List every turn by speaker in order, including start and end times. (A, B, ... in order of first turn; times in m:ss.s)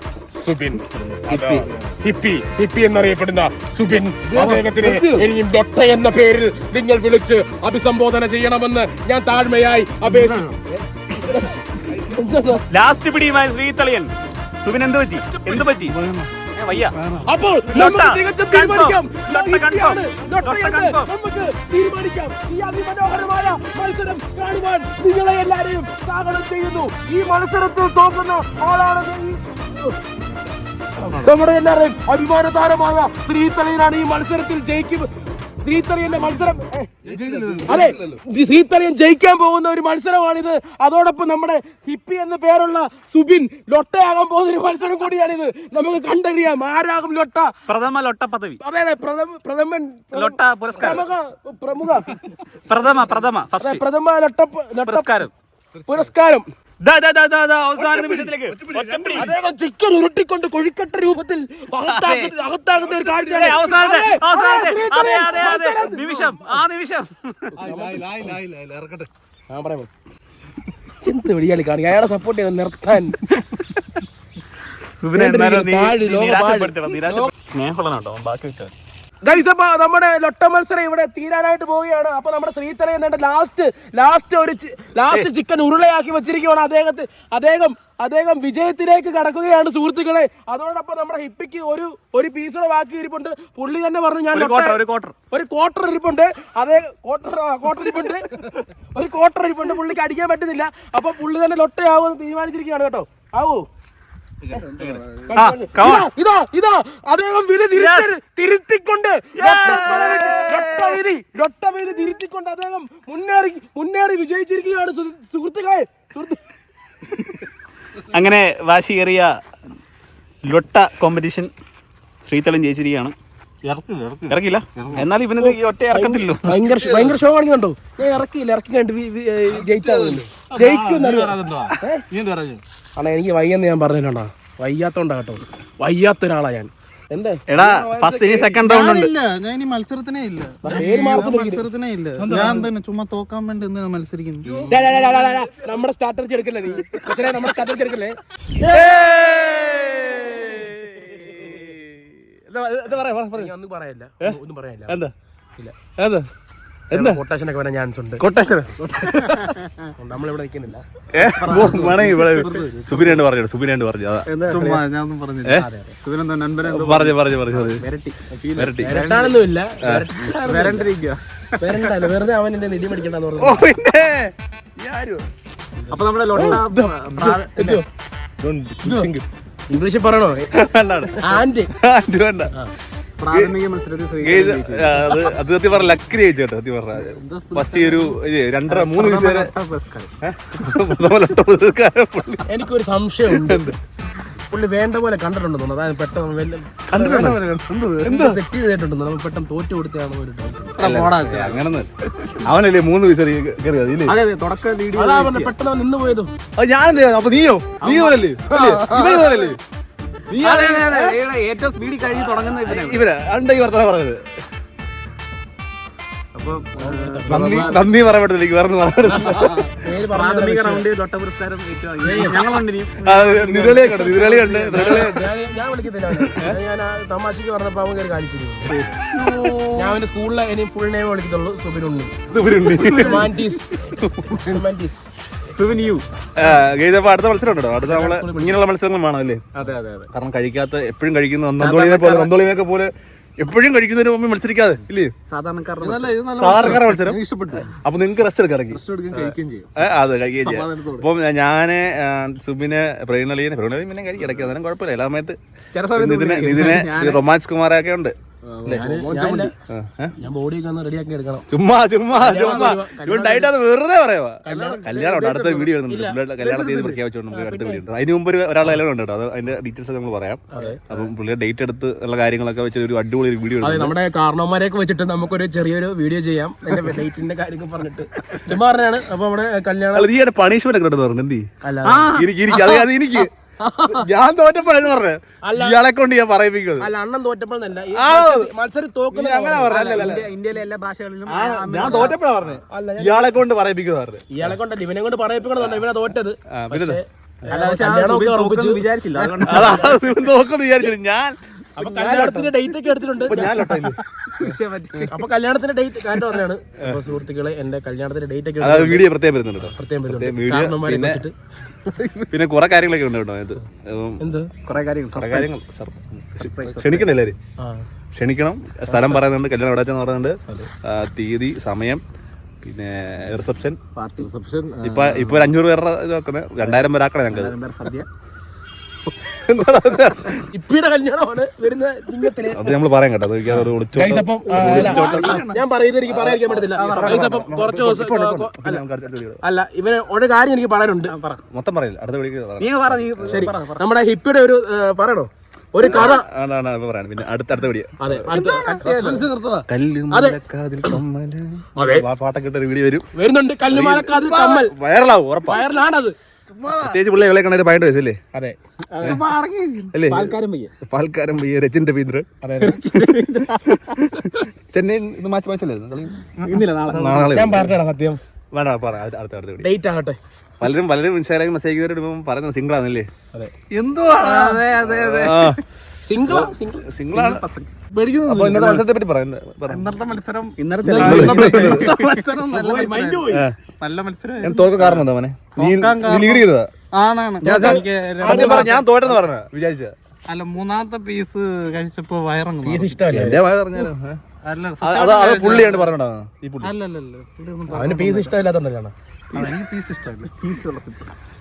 0:00.3-0:12.6 A
0:00.9-0:01.9 B
0:01.3-0:01.7 C
0:04.2-0:05.3 B
0:10.1-0:10.4 B
0:12.7-0:16.0 C
0:15.6-0:16.3 B
0:16.5-0:16.9 C
0:17.2-0:30.0 A
0:17.7-0:21.1 C
0:31.0-0:35.1 A
0:35.6-0:36.9 A
0:37.0-0:38.2 B
0:37.1-0:37.9 D
0:37.6-0:47.5 A
0:47.7-0:48.6 C
0:48.6-0:52.2 A
0:50.1-0:51.0 C
0:52.6-0:53.8 C
0:53.6-0:55.1 A
0:54.8-0:55.3 C
0:55.8-0:56.1 B
0:55.9-0:56.4 A
0:56.8-0:59.3 C
0:57.8-0:59.3 B
0:59.1-1:06.4 A
1:01.8-1:02.3 C
1:02.8-1:03.3 B
1:03.2-1:07.6 C
1:07.6-1:09.1 B
1:07.6-1:08.2 A
1:09.5-1:09.9 A
1:11.0-1:13.2 A
1:15.0-1:18.7 C
1:15.1-1:17.3 A
1:19.2-1:43.7 A
1:34.3-1:35.2 C
1:44.5-1:45.2 B
1:44.8-1:46.1 C
1:45.3-1:56.4 A
1:47.7-1:48.1 C
1:49.3-1:51.0 C
1:58.1-1:59.4 C
2:00.4-2:01.5 C
2:02.2-2:03.1 C
2:03.7-2:05.0 B
2:04.3-2:06.6 C
2:05.4-2:12.0 A
2:06.8-2:07.1 B
2:09.5-2:12.6 B
2:11.0-2:11.6 D
2:13.0-2:17.4 A
2:17.5-2:19.1 C
2:17.6-2:25.1 D
2:20.6-2:21.6 A
2:22.2-2:22.7 B
2:24.5-2:25.0 B
2:24.7-2:28.2 A
2:28.6-2:33.5 B
2:33.3-2:35.0 A
2:34.2-2:35.1 B
2:36.0-2:36.3 B
2:36.9-2:37.2 B
2:36.9-2:38.2 A
2:38.2-2:39.5 B
2:39.0-2:39.9 C
2:40.0-2:40.8 A
2:41.1-2:44.3 B
2:41.3-2:43.2 C
2:44.3-2:44.8 C
2:44.5-2:45.7 D
2:45.6-2:45.9 A
2:46.0-2:49.4 C
2:46.6-2:47.8 B
2:48.5-2:49.0 B
2:48.8-2:50.9 A
2:49.8-2:50.1 B
2:50.3-2:52.0 C
2:51.6-2:53.7 A
2:53.4-2:55.2 B
2:55.9-2:57.8 C
2:56.3-2:57.8 B
2:58.4-2:59.2 D
2:58.8-2:59.1 B
2:59.7-3:00.5 A
3:00.5-3:02.5 B
3:01.2-3:01.7 A
3:03.2-3:05.3 C
3:03.3-3:03.6 B
3:04.2-3:09.5 B
3:07.0-3:08.1 C
3:08.7-3:10.1 C
3:10.2-3:12.6 B
3:12.5-3:13.7 A
3:13.2-3:13.8 B
3:14.5-3:17.3 A
3:16.9-3:17.4 B
3:16.9-3:18.2 D
3:18.0-3:20.8 A
3:18.0-3:18.4 B
3:20.8-3:24.1 B
3:20.8-3:21.6 D
3:24.0-3:25.5 C
3:24.9-3:26.3 A
3:26.6-3:29.6 B
3:27.8-3:29.4 C
3:30.3-3:31.2 B
3:30.4-3:33.1 C
3:32.1-3:34.2 B
3:36.3-3:37.9 C
3:36.8-3:37.7 A
3:37.3-3:39.8 B
3:39.0-3:40.9 A
3:40.1-3:44.5 C
3:42.0-3:42.4 A
3:43.0-3:45.3 B
3:44.0-3:48.7 A
3:46.1-3:46.5 B
3:48.7-3:49.1 C
3:49.1-3:49.9 B
3:49.7-3:52.1 A
3:52.3-3:54.6 B
3:52.8-3:53.0 C
3:52.8-3:53.7 A
3:54.3-3:55.0 A
3:55.5-3:56.0 C
3:56.4-3:59.4 B
3:57.9-3:58.6 A
3:59.5-4:00.1 C
4:00.1-4:05.1 B
4:01.6-4:02.3 C
4:05.3-4:06.2 C
4:05.8-4:07.7 D
4:06.4-4:08.8 B
4:08.7-4:09.7 C
4:08.9-4:09.4 D
4:09.8-4:15.4 B
4:10.4-4:11.0 C
4:10.6-4:10.9 D
4:14.2-4:14.5 C
4:15.7-4:17.2 C
4:15.9-4:18.9 B
4:18.4-4:19.5 C
4:18.7-4:19.5 A
4:19.7-4:20.1 B
4:20.2-4:21.4 A
4:21.5-4:33.9 B
4:22.1-4:23.5 A
4:24.4-4:24.9 A
4:24.6-4:25.7 D
4:25.8-4:26.4 A
4:26.4-4:26.9 D
4:27.3-4:27.8 A
4:30.6-4:31.0 C
4:33.6-4:40.1 A
4:39.9-4:41.4 B
4:41.6-4:44.0 A
4:41.8-4:42.3 C
4:42.1-4:43.3 B
4:43.9-4:46.9 B
4:45.4-4:45.8 A
4:46.8-4:50.1 A
4:47.9-4:48.5 B
4:49.1-4:50.3 B
4:49.6-4:52.2 C
4:51.2-4:54.5 B
4:51.8-4:52.1 A
4:52.7-4:53.4 A
4:54.3-4:59.9 A
4:56.5-4:57.0 B
4:57.4-4:59.9 C
4:59.4-5:02.5 B
5:01.8-5:03.8 A
5:03.2-5:04.5 B
5:04.4-5:05.1 C
5:05.1-5:09.1 A
5:08.6-5:11.2 B
5:09.7-5:11.3 A
5:12.1-5:14.2 B
5:14.2-5:14.5 A
5:14.6-5:15.6 C
5:15.1-5:17.4 B
5:16.4-5:17.3 C
5:17.6-5:17.8 A
5:18.1-5:22.0 B
5:18.9-5:19.2 C
5:22.6-5:23.8 B
5:24.0-5:25.5 C
5:24.8-5:27.5 B
5:26.6-5:28.1 C
5:29.2-5:30.5 B
5:30.5-5:32.8 A
5:32.5-5:39.4 B
5:33.9-5:38.8 A
5:34.4-5:35.4 C
5:34.9-5:35.4 D
5:36.3-5:37.5 C
5:39.4-5:41.1 A
5:41.1-5:41.4 C
5:41.5-5:43.5 B
5:42.6-5:43.8 C
5:43.2-5:46.2 A
5:45.8-5:48.9 B
5:48.0-5:50.4 A
5:48.3-5:49.3 C
5:49.6-5:53.0 B
5:51.8-5:52.0 A
5:53.1-5:54.7 A
5:53.7-5:55.6 B
5:55.5-5:56.1 A
5:56.5-5:57.0 D
5:56.7-5:58.2 B
5:58.9-6:00.7 C
5:59.0-6:00.0 D
5:59.9-6:03.3 B
6:02.4-6:02.8 A
6:02.6-6:04.1 C
6:03.9-6:07.7 B
6:06.4-6:07.6 C
6:07.3-6:08.2 A
6:08.5-6:09.7 B
6:09.6-6:10.2 A
6:10.6-6:13.1 B
6:13.7-6:14.6 D
6:14.1-6:15.6 C
6:14.8-6:15.6 B
6:16.0-6:16.8 A
6:16.2-6:16.5 C
6:16.9-6:17.4 B
6:17.1-6:18.8 C
6:18.0-6:18.8 D
6:18.3-6:19.9 B
6:19.7-6:25.0 D
6:20.6-6:23.4 C
6:20.8-6:21.6 A
6:21.0-6:21.9 B
6:23.2-6:23.5 B
6:24.4-6:26.7 B
6:24.8-6:25.0 C
6:25.6-6:28.8 D
6:27.4-6:29.9 B
6:27.6-6:28.8 A
6:30.3-6:33.3 D
6:32.6-6:33.4 A
6:33.1-6:34.2 B
6:34.4-6:35.9 D
6:34.8-6:36.7 B
6:36.6-6:38.4 D
6:37.7-6:38.9 A
6:39.3-6:40.3 D
6:40.3-6:41.1 C